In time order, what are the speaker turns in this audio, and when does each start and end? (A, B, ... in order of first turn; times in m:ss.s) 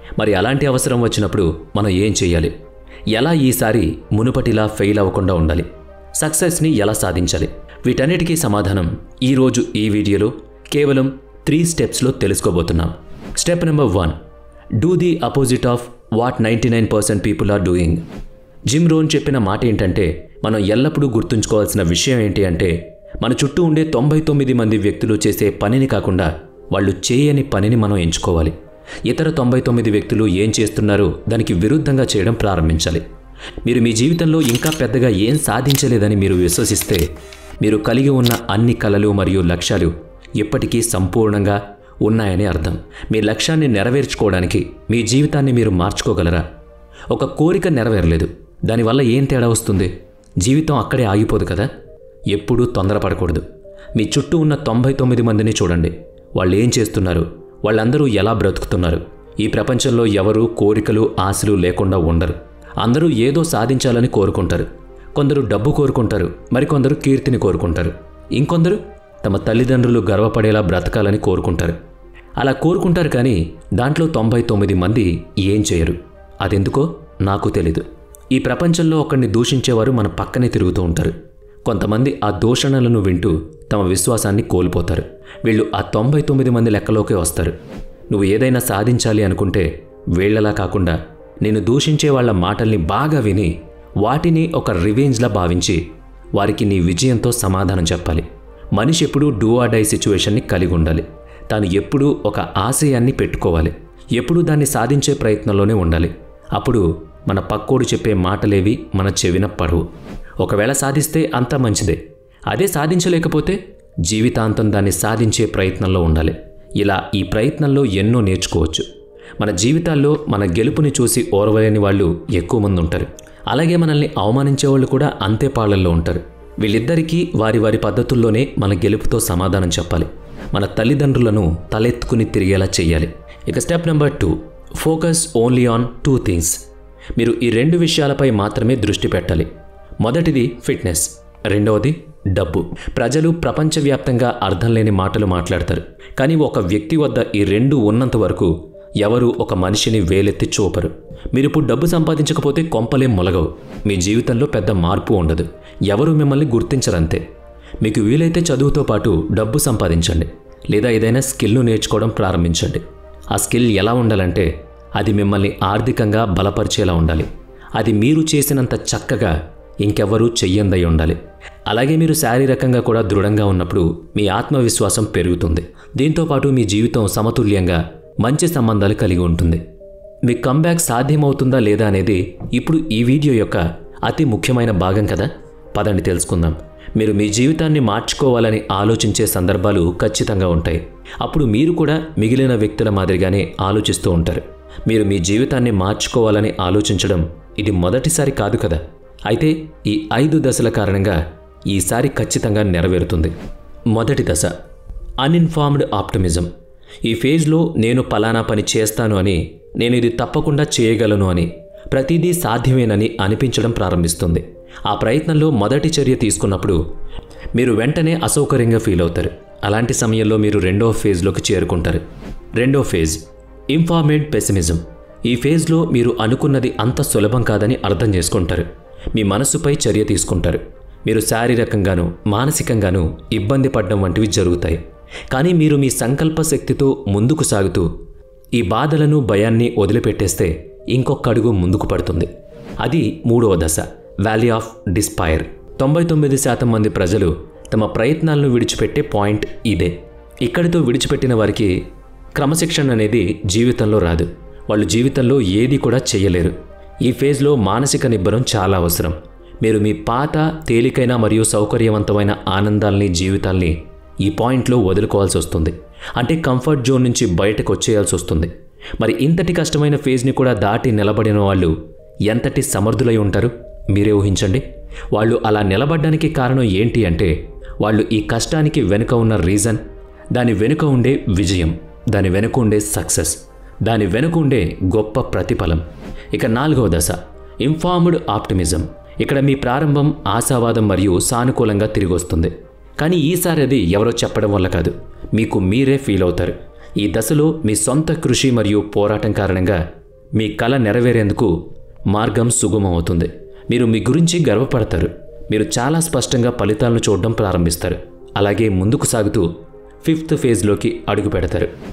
0:00.2-0:02.5 A
0:03.1-0:14.2 A
0:14.8-0:18.0 A
0:18.7-0:28.5 A
0:29.1-0:33.0 A
0:33.6-0:37.0 A
0:37.6-0:46.4 A
0:47.1-0:51.7 A
0:52.3-0:53.4 A
0:54.0-1:11.8 A
1:12.4-1:21.1 A
1:21.6-1:27.6 A
1:28.1-1:35.8 A
1:36.4-1:49.8 A
1:50.4-1:52.0 A
1:52.5-1:58.9 A
1:59.4-2:16.6 A
2:17.2-2:19.5 A
2:20.0-2:37.2 A
2:37.8-2:42.8 A
2:43.3-2:59.6 A
3:00.3-3:21.2 A
3:21.7-3:23.3 A
3:23.9-3:24.5 A
3:25.2-3:26.5 A
3:27.0-3:36.8 A
3:37.6-3:42.0 A
3:42.6-3:43.2 A
3:43.7-3:57.9 A
3:58.6-4:02.3 A
4:02.8-4:11.7 A
4:12.4-4:31.7 A
4:32.3-4:34.6 A
4:35.1-4:39.8 A
4:40.3-4:59.8 A
5:00.4-5:01.5 A
5:02.1-5:09.5 A
5:10.0-5:11.7 A